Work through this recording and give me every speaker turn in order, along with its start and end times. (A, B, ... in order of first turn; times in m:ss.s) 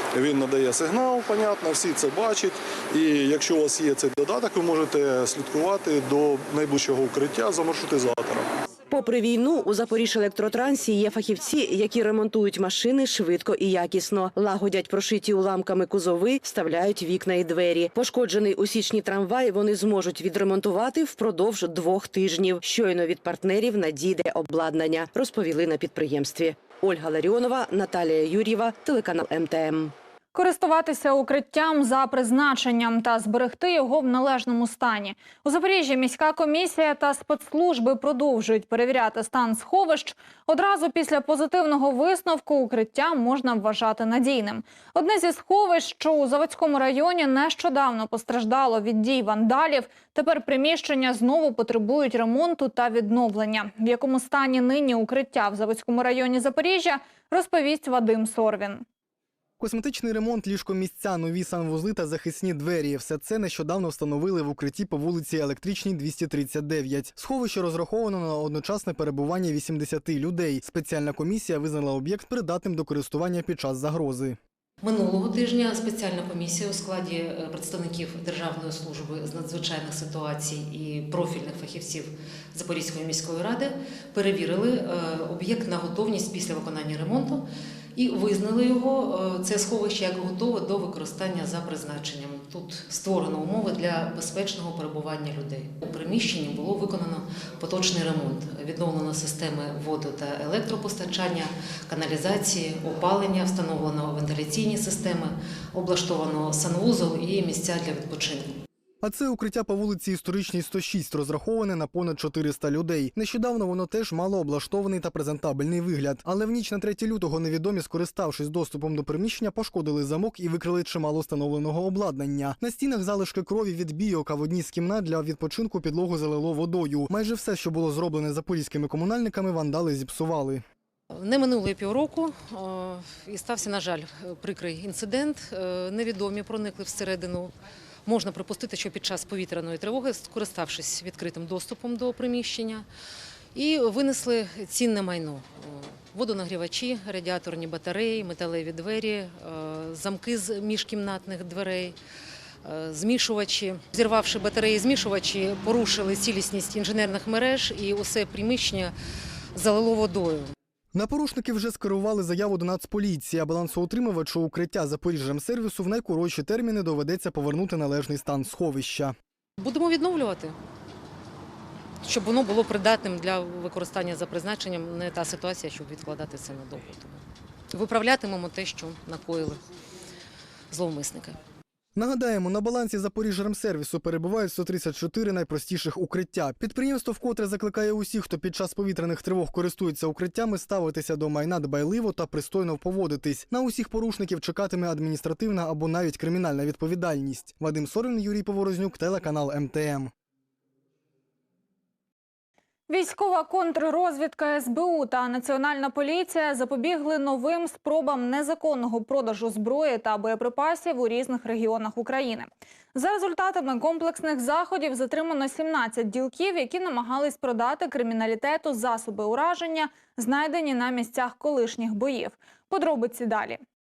0:00.1-0:08.5 A
0:08.9-0:30.0 B
0:30.3-0:58.8 C
0:59.6-1:14.4 D
1:14.8-1:48.6 E
1:49.0-2:10.6 D
2:11.1-2:17.5 E
2:18.0-2:22.9 E
2:23.5-2:32.0 E
2:32.6-2:38.9 E
2:39.5-2:40.5 E
2:40.9-2:49.2 D
2:49.6-2:50.6 E
2:52.0-2:59.6 E
3:00.7-3:01.4 E
3:02.0-3:20.1 D
3:22.9-3:43.6 C